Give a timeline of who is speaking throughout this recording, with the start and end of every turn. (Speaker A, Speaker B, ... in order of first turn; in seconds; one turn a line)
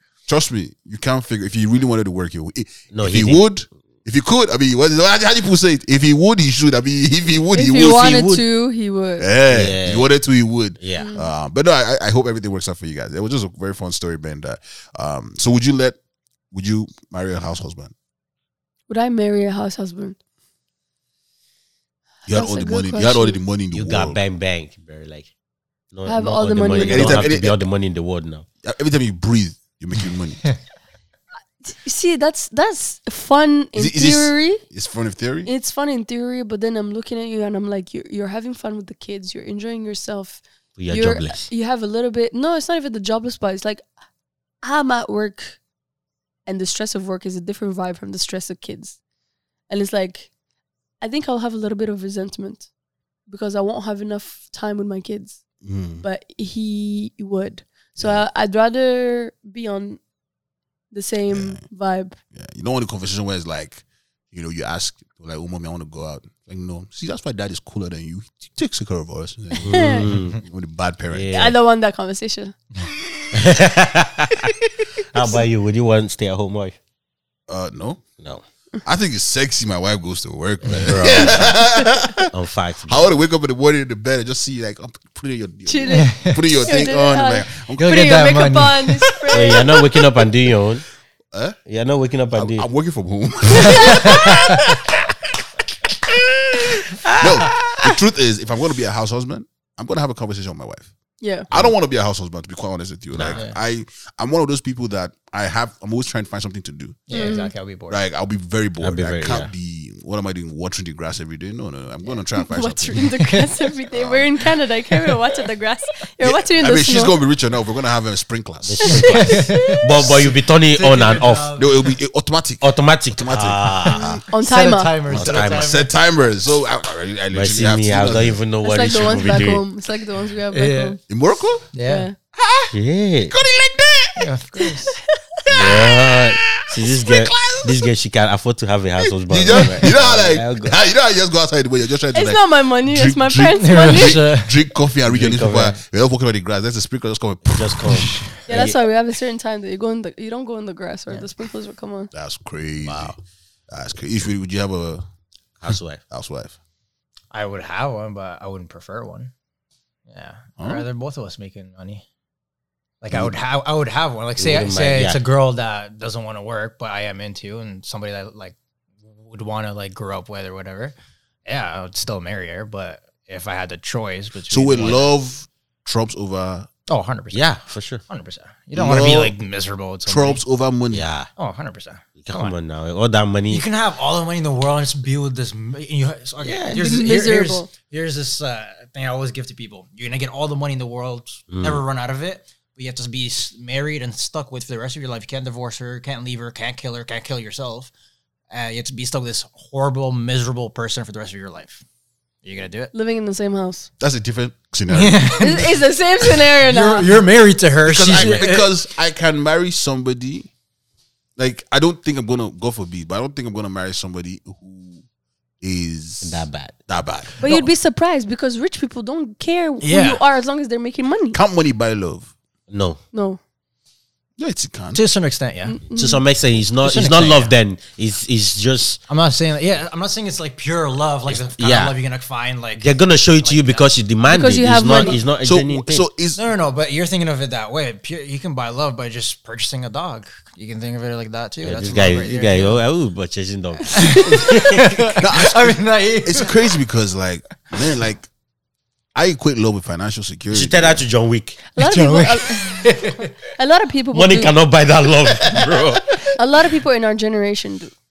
Speaker A: 0.3-8.3
Speaker B: 2.9-3.4
Speaker C: 7.5-9.3
Speaker B: 7.8-8.4
Speaker A: 9.2-16.0
Speaker B: 9.5-10.1
Speaker B: 10.8-11.1
Speaker C: 11.0-11.3
Speaker A: 16.5-17.9
Speaker C: 18.9-20.2
Speaker A: 22.3-24.2
Speaker C: 22.3-23.4
Speaker B: 23.7-25.3
Speaker B: 25.9-28.5
Speaker C: 26.1-27.3
Speaker A: 26.8-27.6
Speaker A: 28.6-30.4
Speaker C: 31.6-34.6
Speaker A: 33.8-35.5
Speaker C: 35.5-43.8
Speaker B: 40.8-41.5
Speaker C: 44.6-45.6
Speaker C: 46.5-49.0
Speaker C: 49.7-50.3
Speaker C: 51.0-52.7
Speaker C: 53.3-55.4
Speaker A: 55.6-56.1
Speaker C: 56.0-60.0
Speaker A: 58.0-58.2
Speaker C: 60.9-62.2
Speaker A: 61.3-61.6
Speaker A: 62.3-71.3
Speaker C: 69.6-70.0
Speaker B: 69.6-70.4
Speaker B: 71.1-71.6
Speaker C: 71.3-72.5
Speaker B: 73.3-76.8
Speaker A: 77.5-78.0
Speaker A: 78.8-82.3
Speaker B: 80.7-81.6
Speaker B: 82.3-83.1
Speaker A: 82.9-88.1
Speaker C: 85.7-89.8
Speaker D: 85.9-86.4
Speaker D: 87.8-89.1
Speaker B: 89.3-90.8
Speaker A: 91.3-91.6
Speaker B: 91.7-92.7
Speaker A: 92.3-95.1
Speaker D: 93.7-94.3
Speaker A: 96.0-100.9
Speaker B: 96.9-97.9
Speaker C: 101.2-101.5
Speaker A: 101.5-107.3
Speaker B: 103.1-103.4
Speaker D: 103.3-103.6
Speaker D: 107.1-108.0
Speaker C: 107.1-107.5
Speaker A: 107.9-113.0
Speaker B: 108.8-109.5
Speaker C: 112.4-117.2
Speaker D: 113.0-113.5
Speaker A: 113.9-114.3
Speaker A: 116.2-120.3
Speaker B: 118.7-121.6
Speaker D: 119.1-121.9
Speaker A: 121.6-124.2
Speaker B: 122.6-124.2
Speaker D: 123.8-125.9
Speaker C: 124.3-125.0
Speaker B: 125.1-125.8
Speaker A: 125.1-128.4
Speaker B: 127.3-129.6
Speaker C: 128.6-131.0
Speaker D: 130.5-131.0
Speaker A: 131.1-131.7
Speaker D: 131.7-132.1
Speaker C: 131.8-132.2
Speaker A: 132.3-132.7
Speaker B: 132.7-133.3
Speaker A: 133.3-134.3
Speaker D: 134.2-135.0
Speaker A: 135.5-137.8
Speaker B: 135.5-140.8
Speaker A: 139.3-147.8
Speaker C: 142.1-144.2
Speaker D: 143.6-144.6
Speaker B: 145.1-145.8
Speaker B: 147.5-148.8
Speaker C: 148.5-152.1
Speaker A: 152.1-153.2
Speaker D: 152.8-153.2
Speaker A: 153.7-155.1
Speaker B: 155.6-156.0
Speaker A: 156.1-156.6
Speaker D: 157.3-159.3
Speaker D: 160.1-162.0
Speaker A: 160.6-160.9
Speaker D: 163.0-168.6
Speaker A: 163.1-163.4
Speaker B: 164.4-165.2
Speaker D: 169.1-175.1
Speaker A: 174.5-176.7
Speaker D: 176.9-177.5
Speaker B: 177.3-178.0
Speaker D: 178.1-180.4
Speaker A: 178.7-179.4
Speaker A: 180.1-181.0
Speaker B: 180.9-181.3
Speaker D: 181.4-182.6
Speaker B: 182.2-183.7
Speaker D: 183.5-197.9
Speaker B: 186.4-186.9
Speaker C: 186.7-187.7
Speaker B: 191.5-191.8
Speaker D: 198.5-201.8
Speaker D: 202.4-202.9
Speaker C: 202.9-203.9
Speaker A: 204.0-205.7
Speaker D: 204.9-205.8
Speaker C: 205.4-207.2
Speaker D: 206.4-208.7
Speaker A: 207.8-210.5
Speaker A: 211.4-215.0
Speaker A: 215.6-217.5
Speaker B: 216.2-216.8
Speaker C: 217.4-221.4
Speaker D: 219.8-220.2
Speaker A: 221.3-222.3
Speaker B: 222.7-223.0
Speaker C: 223.1-223.4
Speaker A: 224.4-225.0
Speaker D: 224.9-225.8
Speaker C: 225.7-226.2
Speaker B: 225.9-229.0
Speaker D: 226.8-227.5
Speaker D: 229.1-233.9
Speaker B: 231.3-232.0
Speaker B: 232.8-236.1
Speaker C: 234.3-235.2
Speaker A: 235.4-236.4
Speaker D: 236.4-242.8
Speaker B: 241.6-245.1
Speaker C: 243.9-244.4
Speaker D: 243.9-246.6
Speaker A: 245.2-248.3
Speaker A: 249.2-251.0
Speaker B: 250.5-251.6
Speaker C: 251.7-252.9
Speaker D: 251.8-253.3
Speaker C: 253.6-254.5
Speaker B: 254.1-256.3
Speaker C: 256.3-257.9